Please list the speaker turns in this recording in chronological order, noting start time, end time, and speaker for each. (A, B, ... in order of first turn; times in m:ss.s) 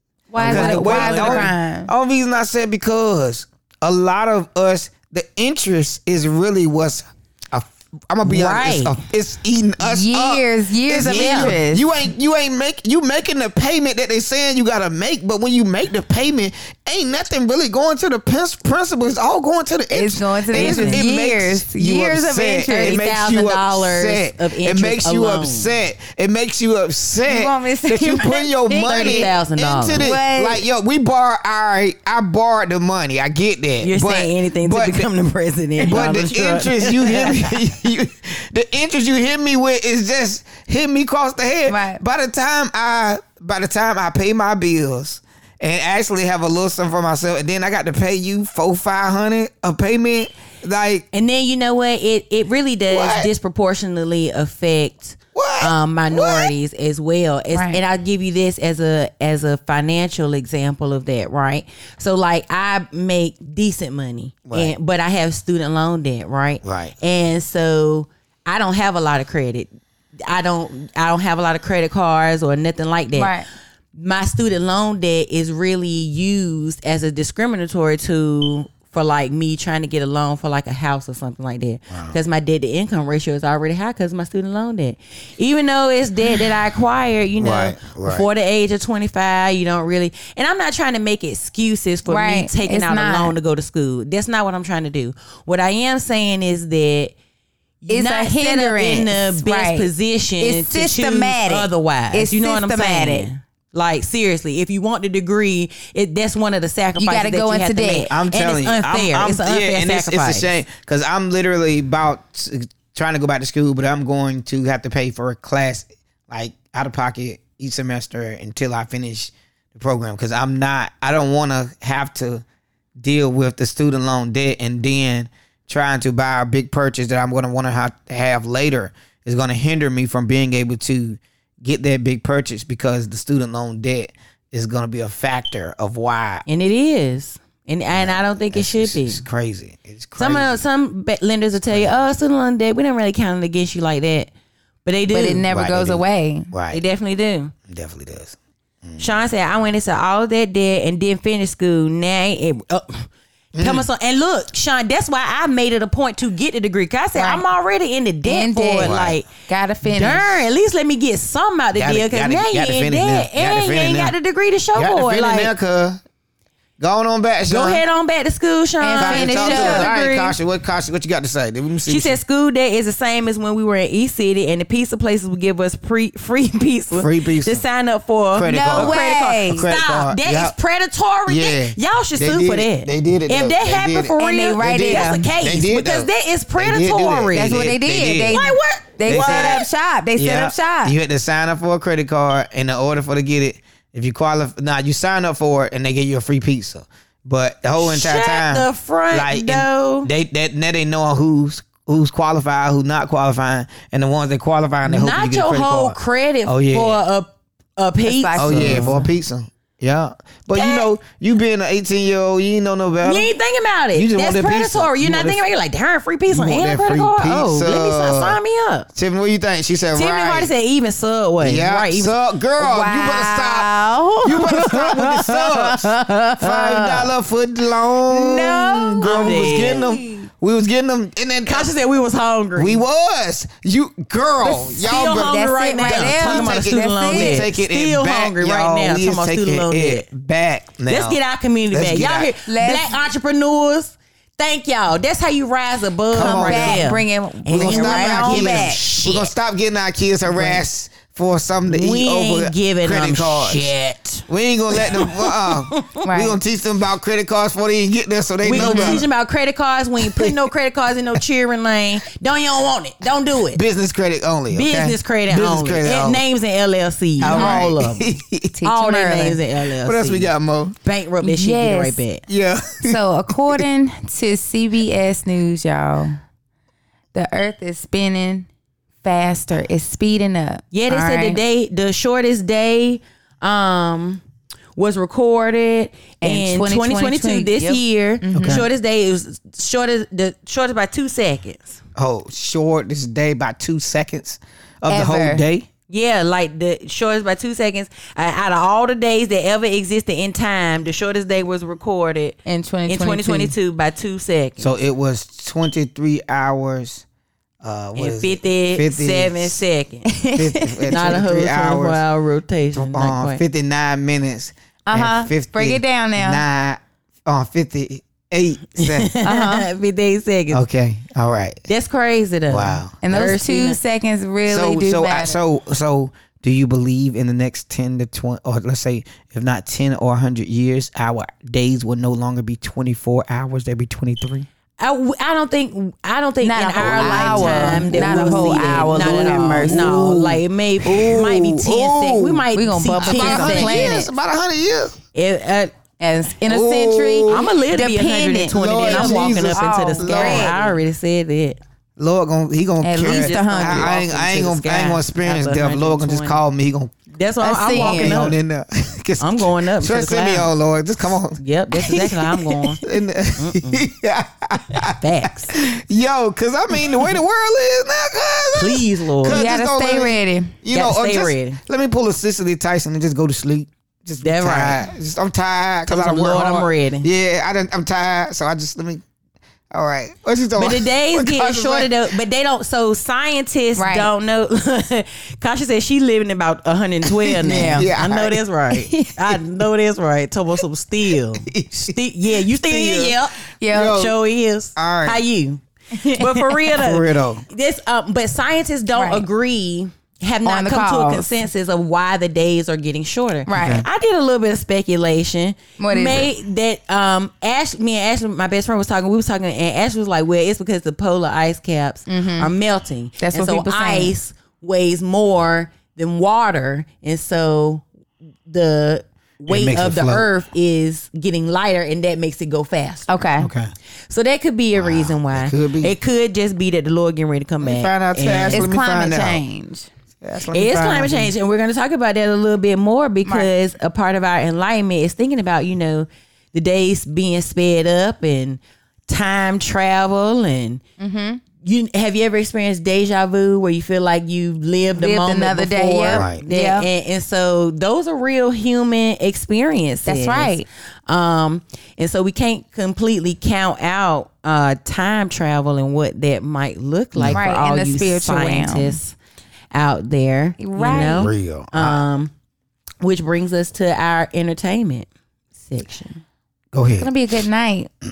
0:00.3-0:01.9 A
0:00.4-0:01.5 B
0:00.4-0:35.1 C
0:08.2-0:09.0 B
0:09.8-0:11.9 A
0:11.1-0:11.5 B
0:19.9-0:23.0 A
0:20.5-0:21.0 B
0:22.7-0:25.7 B
0:27.3-0:29.3 A
0:28.8-0:30.1 B
0:30.0-0:30.6 A
0:33.8-0:37.5 B
0:35.8-0:51.0 C
0:41.7-0:42.0 A
0:51.1-1:09.7 B
0:52.9-0:53.3 C
0:55.4-0:56.5 C
0:57.5-0:57.8 A
1:04.5-1:04.7 C
1:06.6-1:07.0 C
1:10.3-1:13.3 B
1:13.2-1:13.5 A
1:14.0-1:37.1 B
1:21.9-1:22.2 C
1:27.4-1:28.3 C
1:32.1-1:33.3 A
1:37.8-1:50.6 B
1:37.9-1:43.3 A
1:47.0-1:48.1 A
1:48.1-2:02.4 C
2:03.0-2:16.5 C
2:16.5-2:19.2 B
2:17.9-2:20.6 C
2:20.2-2:24.3 B
2:21.7-2:22.1 C
2:24.8-2:25.5 B
2:25.1-2:26.5 A
2:25.5-2:26.8 C
2:26.7-2:27.5 B
2:27.7-2:29.1 C
2:29.0-2:39.3 B
2:33.6-2:33.9 C
2:37.2-2:37.4 A
2:38.2-2:40.4 A
2:38.8-2:39.2 C
2:39.9-2:45.5 B
2:41.7-2:44.2 C
2:44.8-2:46.0 C
2:46.8-2:47.8 C
2:47.5-2:50.4 B
2:48.8-2:49.9 A
2:49.0-2:52.2 C
2:51.9-3:07.7 B
2:56.9-2:57.6 C
2:58.4-3:00.6 C
2:58.5-2:59.7 A
3:01.3-3:08.4 C
3:04.2-3:05.3 A
3:07.4-3:11.0 A
3:08.3-3:09.7 B
3:09.1-3:27.0 C
3:17.8-3:20.1 B
3:24.8-3:29.0 B
3:28.1-3:29.1 A
3:28.4-3:33.3 C
3:30.5-3:30.9 B
3:33.0-3:38.9 B
3:33.9-3:35.5 C
3:36.3-3:38.4 C
3:39.0-3:40.5 C
3:39.9-3:42.2 B
3:41.4-3:51.7 C
3:42.6-3:44.7 A
3:44.3-3:47.1 B
3:48.1-3:50.3 A
3:49.0-3:49.8 B
3:51.5-3:52.8 B
3:52.6-4:01.2 C
3:54.4-3:57.5 A
3:54.8-4:00.1 B
4:00.9-4:09.3 B
4:01.7-4:02.3 C
4:02.5-4:03.0 A
4:06.1-4:06.9 C
4:06.2-4:08.9 A
4:07.5-4:13.7 C
4:10.3-4:10.6 B
4:11.7-4:16.0 B
4:14.3-4:19.1 C
4:16.0-4:16.4 A
4:18.4-4:23.6 B
4:18.6-4:19.0 A
4:20.1-4:20.4 C
4:23.5-4:26.2 C
4:24.5-4:30.3 B
4:27.2-4:28.6 C
4:27.2-4:27.7 A
4:28.6-4:29.4 A
4:29.8-4:30.8 C
4:30.8-4:32.2 B
4:31.2-4:32.0 A
4:32.3-4:33.6 C
4:32.8-4:36.2 A
4:37.1-4:38.5 A
4:39.0-4:41.4 A
4:40.7-4:44.2 B
4:44.8-4:51.8 B
4:46.2-4:48.6 A
4:48.3-4:48.7 C
4:52.0-4:55.7 C
4:54.9-4:55.4 A
4:55.9-5:04.7 B
5:02.5-5:03.5 A
5:04.6-5:07.0 C
5:07.6-5:09.6 C
5:08.0-5:10.2 B
5:10.1-5:11.1 A
5:10.4-5:12.0 C
5:10.9-5:13.4 B
5:12.8-5:19.1 C
5:14.9-5:16.4 A
5:18.8-5:20.6 B
5:19.2-5:19.7 A
5:20.5-5:21.6 C
5:21.7-5:23.8 B
5:22.5-5:23.4 C
5:23.0-5:25.4 A
5:24.5-5:34.5 C
5:34.8-5:44.0 B
5:36.4-5:40.0 A
5:36.8-5:42.5 C
5:42.6-5:44.1 A
5:43.0-5:45.0 C
5:45.1-5:45.7 B
5:46.0-5:50.6 A
5:46.4-5:47.5 C
5:47.3-5:51.6 B
5:48.5-5:50.7 C
5:52.0-5:56.9 C
5:52.8-5:53.9 A
5:53.0-5:56.4 B
5:57.2-5:58.4 B
5:57.4-5:58.3 A
5:57.7-6:19.0 C
5:59.2-6:00.5 B
6:01.4-6:02.8 B
6:03.4-6:03.8 B
6:04.8-6:05.6 B
6:08.6-6:09.4 B
6:09.2-6:10.6 A
6:10.7-6:11.6 B
6:14.2-6:14.9 B
6:15.9-6:17.1 B
6:19.7-6:22.0 C
6:20.6-6:57.8 B
6:23.8-6:24.1 A
6:27.1-6:28.9 C
6:27.4-6:27.9 A
6:31.4-6:33.2 C
6:33.6-6:34.1 A
6:33.7-6:34.2 C
6:34.8-6:35.2 C
6:36.0-6:36.7 A
6:36.7-6:37.4 C
6:39.0-6:39.2 A
6:40.4-6:41.3 A
6:43.5-6:43.8 A
6:43.5-6:43.9 C
6:45.8-6:46.3 A
6:52.1-6:52.5 A
6:53.2-6:54.1 A
6:58.5-7:03.1 B
6:59.5-7:00.3 C
7:03.1-7:03.5 A
7:03.4-7:03.7 C
7:04.1-7:08.7 B
7:04.8-7:05.9 C
7:07.6-7:09.4 C
7:08.5-7:09.9 A
7:10.2-7:11.3 C
7:10.5-7:20.8 B
7:21.0-7:21.4 A
7:21.6-7:39.2 B
7:24.9-7:26.9 A
7:26.1-7:26.4 C
7:30.1-7:30.7 A
7:37.2-7:37.4 C
7:37.3-7:39.0 A
7:39.7-7:42.3 B
7:40.6-7:41.3 A
7:40.9-7:42.0 C
7:43.0-7:45.1 B
7:45.6-7:46.2 B
7:46.7-7:47.1 C
7:47.0-7:47.9 A